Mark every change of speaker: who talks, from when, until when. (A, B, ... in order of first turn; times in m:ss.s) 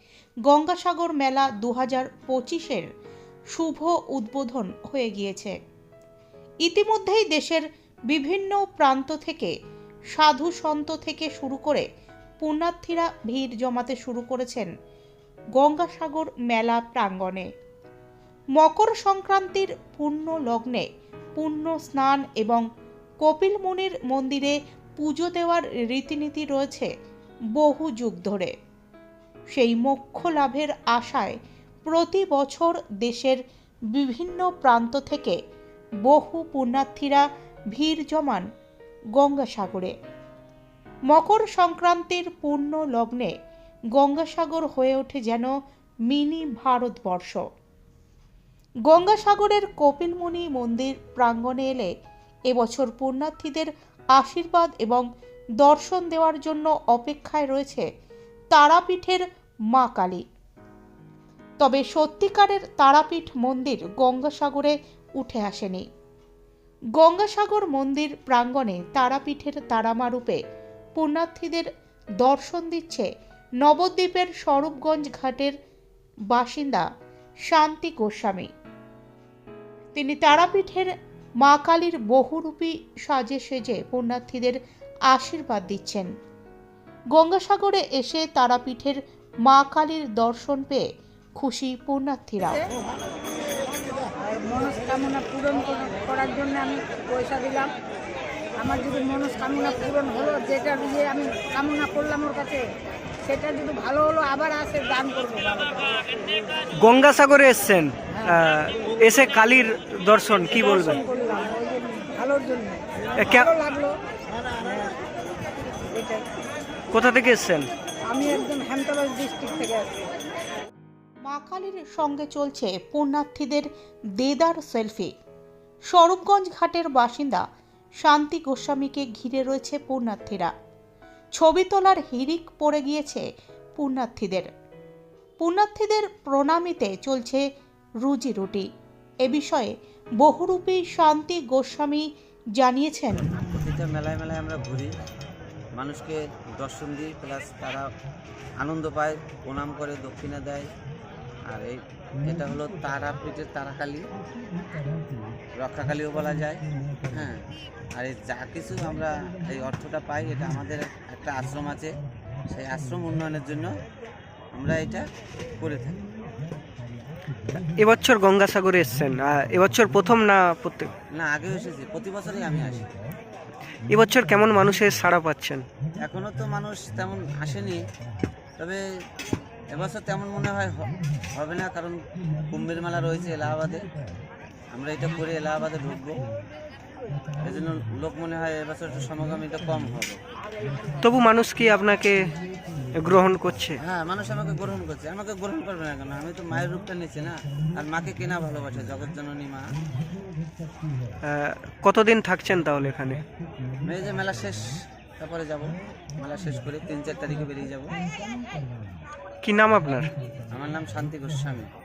0:00.5-0:02.8 A
0:03.5-0:05.6 A
0:06.6-0:09.5 A
0:10.1-0:11.9 A
0:12.4-0:14.7 A
0:15.6-0:17.5 A
0:18.6-0:20.8 A
0:21.4-0:22.6 A
0:23.2-0:26.9 A
0:27.6-0:28.5 A
0:29.5-0:31.3 A
0:31.9-0:33.4 A
0:33.9-0:35.4 A
0:36.0-0:38.4 A
0:39.2-0:39.9 A
0:41.1-0:43.3 A
0:43.9-0:45.5 A
0:46.1-0:47.4 A
0:48.9-0:51.9 A
0:52.5-0:55.0 A
0:55.6-0:57.8 A
0:58.5-1:00.2 A
1:01.6-1:05.8 A
1:07.0-1:10.4 A
1:11.0-1:11.7 A
1:12.2-1:13.1 A
1:13.6-1:15.5 A
1:16.3-1:16.8 A
1:17.5-1:18.5 A
1:19.9-1:20.9 A
1:21.4-1:24.6 A
1:25.1-1:26.1 A
1:27.1-1:30.8 A
1:31.4-1:32.6 A
1:34.3-1:37.7 B
1:38.6-1:42.6 B
1:43.2-1:46.1 B
1:46.8-1:51.0 C
1:50.5-1:54.0 B
1:53.2-1:53.5 C
1:54.6-1:55.0 B
1:55.9-1:56.2 B
1:56.9-1:57.7 C
1:58.1-1:59.9 B
2:01.2-2:03.7 A
2:04.2-2:05.1 A
2:05.9-2:07.4 A
2:08.0-2:10.5 A
2:11.4-2:13.2 A
2:13.8-2:14.5 A
2:15.4-2:17.4 A
2:18.0-2:18.7 A
2:19.2-2:22.0 A
2:22.6-2:23.3 A
2:23.3-2:24.9 D
2:25.8-2:27.8 D
2:28.6-2:30.7 D
2:31.5-2:34.0 D
2:35.6-2:41.9 D
2:42.5-2:43.7 D
2:44.5-2:45.1 D
2:45.6-2:46.0 D
2:47.7-2:50.9 C
2:51.1-2:52.9 D
2:53.9-2:55.6 C
2:56.0-2:57.9 D
2:59.7-3:03.8 D
3:04.7-3:06.2 D
3:07.4-3:10.2 D
3:11.0-3:12.3 C
3:13.0-3:13.8 C
3:13.8-3:19.6 D
3:21.2-3:23.2 C
3:23.8-3:27.9 D
3:29.4-3:30.1 C
3:30.5-3:31.7 D